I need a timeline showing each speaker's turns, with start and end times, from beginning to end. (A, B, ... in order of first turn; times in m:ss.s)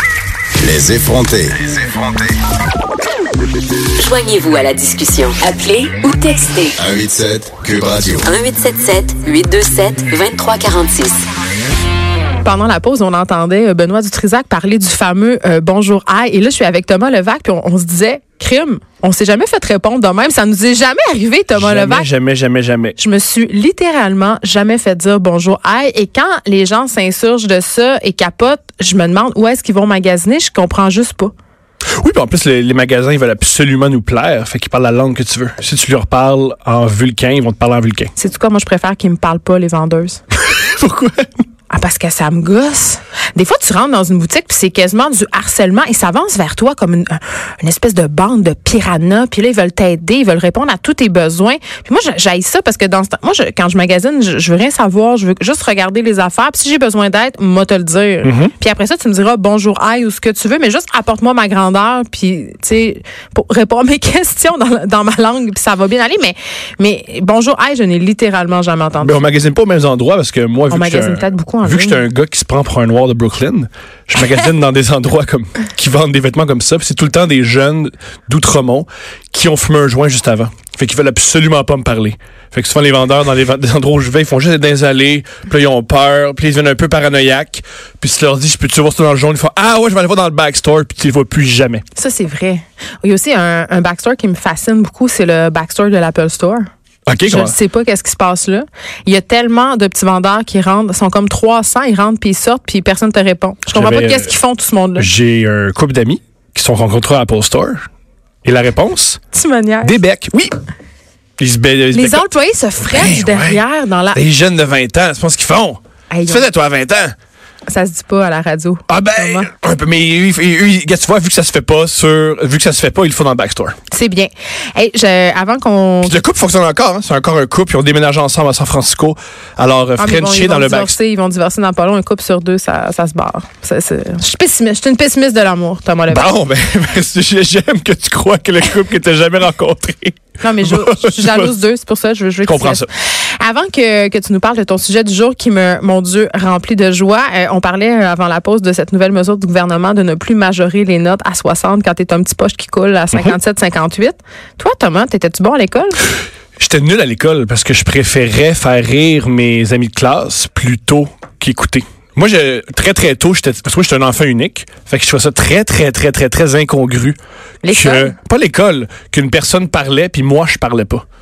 0:00.6-0:02.3 A
0:04.0-0:06.8 B
0:06.8-0:08.2 A
0:08.2-0:11.2 B
0:12.4-0:22.1 C
0:21.5-0:23.0 D
0:23.0-0:31.3 C
0:32.0-0:38.1 D
0:38.2-0:40.2 C
0:40.5-0:41.3 D
0:41.7-1:09.2 C
0:58.2-0:58.5 D
1:09.0-1:31.8 D
1:10.7-1:12.1 C
1:32.0-1:36.7 C
1:37.1-1:37.6 D
1:37.2-1:45.1 C
1:43.7-1:44.3 D
1:45.0-1:47.8 D
1:48.4-1:49.2 D
1:49.3-1:50.0 C
1:49.8-1:50.5 D
1:51.4-1:52.3 D
1:51.9-1:54.2 C
1:52.8-1:53.6 D
1:54.1-1:57.2 D
1:56.1-1:56.4 C
1:57.7-1:59.5 C
1:58.9-2:03.8 D
2:03.9-2:06.2 C
2:06.0-2:11.0 D
2:10.0-2:16.3 C
2:16.1-2:21.5 D
2:20.4-2:36.0 C
2:22.4-2:22.9 D
2:36.6-2:51.0 D
2:47.6-2:48.1 C